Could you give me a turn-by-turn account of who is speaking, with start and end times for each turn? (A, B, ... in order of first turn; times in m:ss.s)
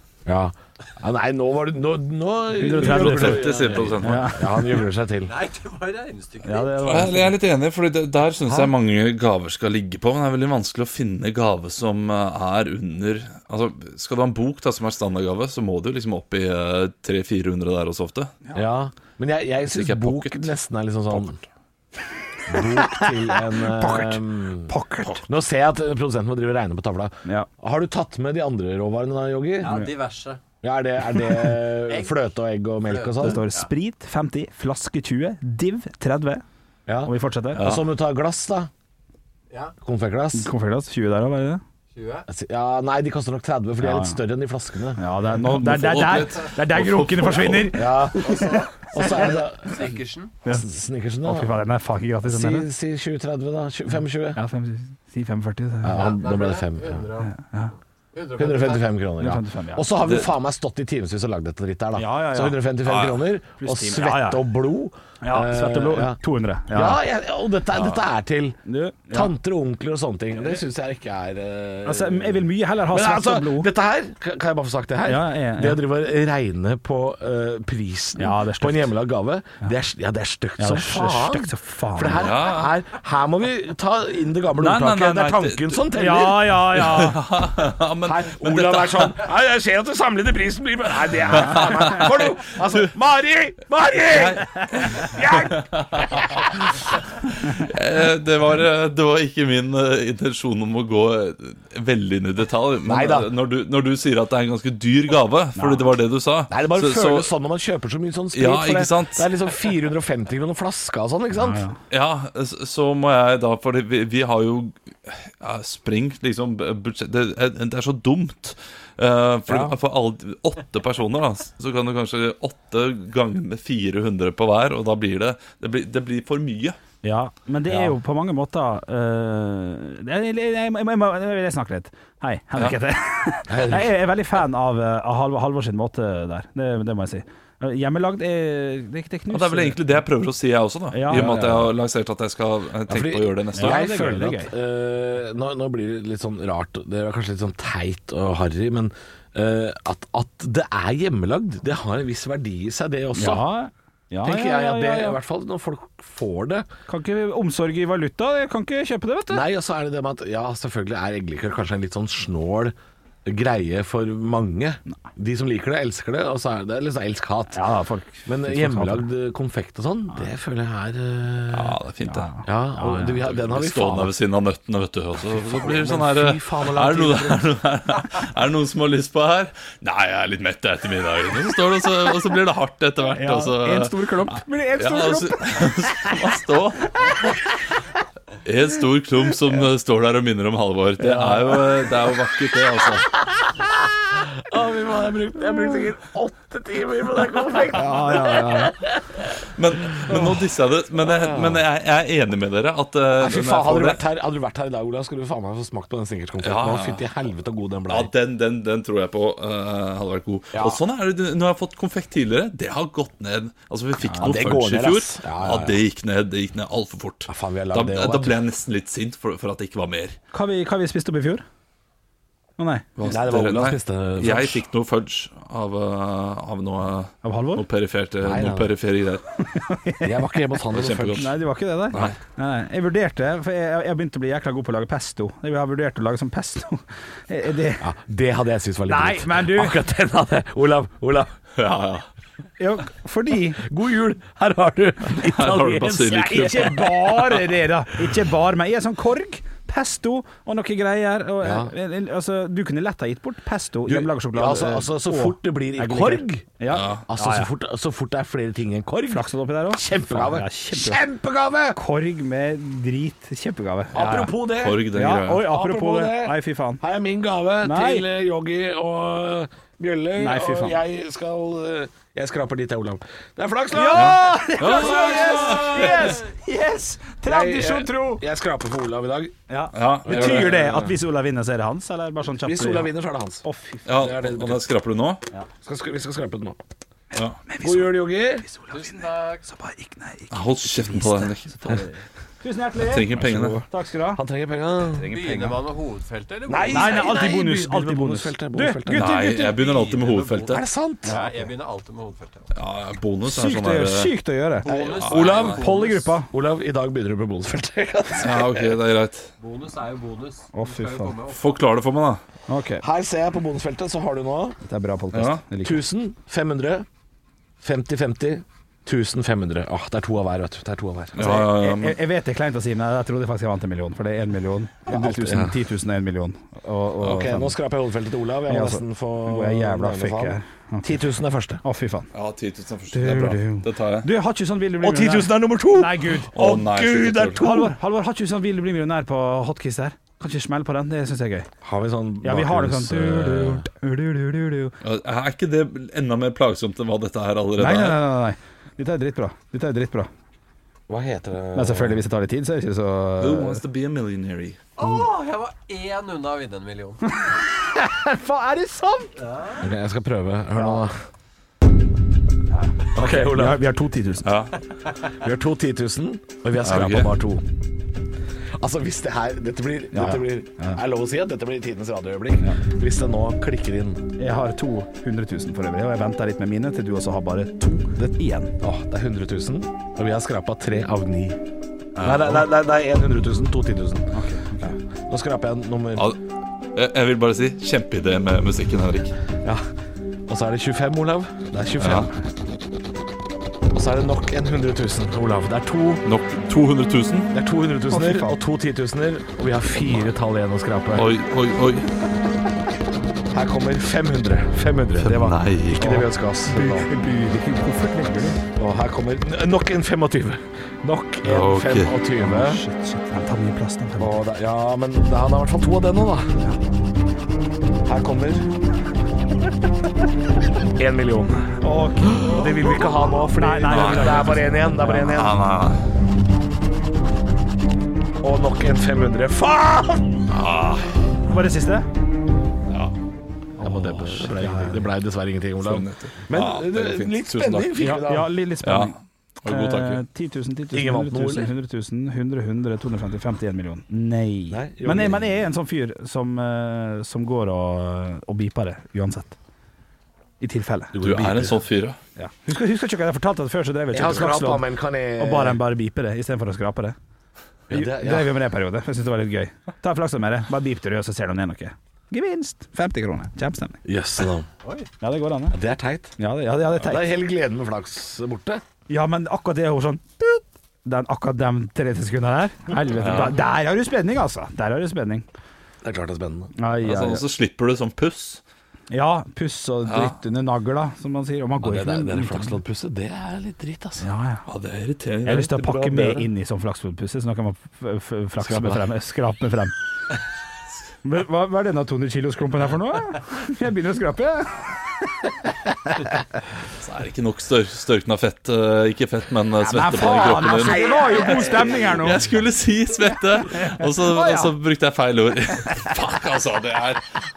0:00.2-0:05.3 A
0:02.6-0:04.7 B
0:02.7-0:04.3 C
0:05.2-0:07.0 D
0:06.4-0:07.3 B
0:06.8-0:18.3 C
0:08.4-0:08.7 A
0:18.5-0:21.4 A
0:19.6-0:20.5 C
0:21.1-0:21.4 C
0:22.5-0:25.2 B
0:22.5-0:29.8 A
0:29.6-0:30.4 D
0:29.6-0:29.9 B
0:30.6-0:33.5 A
0:31.8-0:32.2 D
0:32.8-0:33.7 D
0:33.2-0:36.4 B
0:36.9-0:38.7 A
0:37.0-0:37.6 B
0:37.6-0:37.8 C
0:39.5-0:39.7 D
0:39.8-0:40.5 A
0:40.3-0:41.6 B
0:41.9-0:42.3 D
0:42.3-0:45.0 A
0:43.8-0:44.2 B
0:45.0-0:49.3 B
0:45.4-0:47.8 C
0:47.7-0:49.9 A
0:48.2-0:50.3 D
0:50.4-0:51.6 A
0:51.2-0:52.6 B
0:52.2-0:54.4 A
0:54.4-0:56.1 B
0:55.8-0:57.0 A
0:55.9-0:57.3 D
0:57.2-0:57.7 B
0:58.1-0:58.9 D
0:58.4-1:08.6 A
0:59.2-0:59.9 B
1:02.0-1:02.6 B
1:02.8-1:03.2 C
1:03.6-1:04.4 B
1:05.2-1:07.0 B
1:07.7-1:08.0 C
1:08.6-1:09.3 B
1:09.1-1:26.6 A
1:11.8-1:13.7 B
1:15.0-1:15.8 B
1:18.2-1:18.9 B
1:20.6-1:22.3 B
1:22.1-1:22.7 C
1:24.6-1:25.8 C
1:25.9-1:27.2 B
1:26.7-1:29.2 C
1:28.0-1:36.8 A
1:31.4-1:32.9 C
1:31.5-1:31.9 B
1:34.1-1:36.3 C
1:34.5-1:35.0 B
1:37.2-1:47.3 C
1:42.8-1:43.3 A
1:45.6-1:45.9 B
1:46.5-1:51.6 A
1:48.3-1:49.3 C
1:51.4-1:51.8 B
1:51.9-2:06.8 C
1:59.5-1:59.7 B
2:07.0-2:20.0 B
2:07.7-2:07.9 A
2:13.5-2:13.9 A
2:19.3-2:23.9 C
2:20.9-2:21.7 B
2:21.1-2:21.7 A
2:22.9-2:33.4 A
2:23.6-2:24.5 B
2:33.2-2:35.2 B
2:34.2-2:36.7 A
2:36.9-2:39.4 B
2:39.3-2:47.6 A
2:47.5-2:49.1 B
2:48.2-2:51.8 A
2:51.5-2:52.3 C
2:52.0-2:53.2 B
2:52.4-2:54.1 A
2:53.2-3:07.3 C
2:55.2-2:57.4 A
3:03.1-3:06.2 B
3:06.8-3:07.4 B
3:08.4-3:13.1 C
3:11.0-3:11.6 B
3:14.3-3:19.2 A
3:17.7-3:18.7 B
3:19.5-3:24.0 C
3:20.0-3:20.3 A
3:21.0-3:21.6 A
3:23.1-3:28.1 A
3:26.4-3:27.0 C
3:27.9-3:40.2 C
3:30.5-3:30.8 A
3:34.0-3:34.5 B
3:34.2-3:35.8 A
3:37.3-3:38.4 A
3:40.3-3:41.4 B
3:42.6-3:42.9 B
3:43.0-3:49.2 C
3:43.0-3:44.6 A
3:47.2-3:47.6 B
3:48.2-3:48.7 A
3:49.5-3:50.2 B
3:50.0-3:51.3 A
3:50.7-3:51.3 C
3:51.2-3:57.9 B
3:51.9-3:52.2 A
3:57.8-4:01.3 A
3:58.8-3:59.8 B
4:01.6-4:02.1 C
4:02.6-4:03.6 B
4:03.6-4:07.3 A
4:05.1-4:07.4 C
4:06.2-4:17.5 B
4:11.4-4:11.7 A
4:13.8-4:16.5 A
4:16.7-4:17.0 C
4:17.1-4:21.8 A
4:19.1-4:21.0 B
4:21.7-4:24.3 B
4:23.9-4:36.2 A
4:24.6-4:25.5 C
4:24.9-4:26.8 B
4:27.6-4:28.0 B
4:30.2-4:30.8 B
4:33.7-4:38.2 B
4:33.9-4:36.2 C
4:37.2-4:39.4 A
4:39.5-4:42.9 B
4:39.7-4:40.6 C
4:40.0-4:41.0 A
4:42.4-4:44.6 A
4:43.4-4:43.9 B
4:43.8-4:45.2 C
4:45.6-4:46.6 A
4:47.5-4:54.2 B
4:47.6-4:48.4 A
4:48.7-4:49.4 D
4:50.3-4:51.8 C
4:52.8-4:53.6 C
4:53.1-4:55.5 A
4:54.9-4:57.3 D
4:55.1-4:55.5 C
4:56.5-4:59.1 A
4:56.7-4:59.6 B
4:58.9-5:00.6 C
4:59.4-5:02.5 D
5:00.5-5:01.2 A
5:01.0-5:01.3 B
5:02.5-5:04.1 C
5:03.2-5:04.7 B
5:04.6-5:06.1 D
5:04.6-5:05.6 A
5:05.0-5:05.6 C
5:05.5-5:06.3 B
5:06.3-5:08.8 A
5:08.2-5:09.3 C
5:09.4-5:11.6 D
5:10.5-5:11.1 B
5:11.3-5:12.2 C
5:12.5-5:12.8 B
5:12.8-5:14.6 A
5:14.6-5:15.8 B
5:15.1-5:15.4 C
5:15.6-5:16.9 A
5:17.6-5:21.3 A
5:21.1-5:27.5 B
5:21.2-5:22.0 C
5:24.9-5:25.5 A
5:27.0-5:31.6 A
5:28.5-5:31.0 B
5:31.6-5:32.1 B
5:32.1-5:34.1 C
5:32.9-5:36.3 B
5:34.8-5:37.7 A
5:36.3-5:37.4 C
5:37.4-5:41.5 B
5:41.6-5:43.7 A
5:42.2-5:44.7 B
5:44.8-5:48.0 C
5:47.6-5:50.1 B
5:50.9-5:52.0 A
5:51.5-5:53.6 B
5:53.2-5:54.6 C
5:54.8-5:57.0 D
5:54.8-5:55.1 A
5:57.1-5:59.1 B
5:59.2-5:59.6 D
5:59.6-6:00.9 A
6:00.6-6:00.8 B
6:02.6-6:04.3 B
6:02.9-6:03.6 A
6:04.2-6:04.5 C
6:05.1-6:07.4 A
6:06.6-6:07.1 C
6:08.6-6:14.0 A
6:09.9-6:10.8 B
6:14.2-6:18.5 B
6:18.0-6:21.4 A
6:22.0-6:22.4 C
6:22.0-6:24.1 A
6:24.1-6:24.8 B
6:25.0-6:26.1 A
6:26.7-6:29.1 C
6:29.4-6:29.7 A
6:30.3-6:32.1 A
6:31.8-6:32.1 C
6:33.7-6:36.0 A
6:36.0-6:37.3 C
6:37.3-6:41.1 A
6:37.9-6:38.4 B
6:40.9-6:41.9 C
6:43.3-6:46.9 A
6:45.0-6:46.0 C
6:45.8-6:48.4 B
6:48.5-6:52.6 A
6:51.2-6:51.9 C
6:52.2-6:54.1 B
6:54.0-6:56.4 A
6:57.8-6:58.5 A
7:00.7-7:01.5 A
7:01.6-7:02.7 B
7:02.1-7:05.4 A
7:03.3-7:05.1 B
7:03.7-7:05.8 C
7:08.2-7:10.3 A
7:10.3-7:11.2 C
7:11.3-7:11.9 B
7:12.7-7:12.9 C
7:13.6-7:14.9 B
7:13.6-7:18.3 A
7:15.6-7:17.8 C
7:17.8-7:19.0 B
7:18.6-7:20.0 C
7:19.5-7:29.4 B
7:20.7-7:21.5 A
7:24.5-7:25.4 A
7:30.4-7:30.9 B
7:30.9-7:31.6 A
7:31.0-7:32.0 C
7:32.2-7:37.0 B
7:33.9-7:35.6 A
7:37.7-7:38.4 A
7:37.7-7:43.8 B
7:43.8-7:44.5 A
7:45.0-7:45.6 B
7:45.5-7:46.2 A
7:46.2-7:47.1 B
7:46.8-7:48.6 A
7:48.9-7:55.2 B
7:53.0-7:53.4 C
7:55.8-7:56.5 A
7:56.6-7:57.2 B
7:56.8-7:58.4 C
7:58.9-8:02.6 B
7:59.8-8:00.1 C
8:01.6-8:04.1 A
8:04.0-8:04.4 B
8:04.4-8:06.2 C
8:05.2-8:09.7 B
8:08.4-8:08.8 A
8:11.0-8:14.7 B
8:16.8-8:27.0 C
8:19.6-8:22.2 B
8:20.3-8:21.7 A
8:23.5-8:24.5 B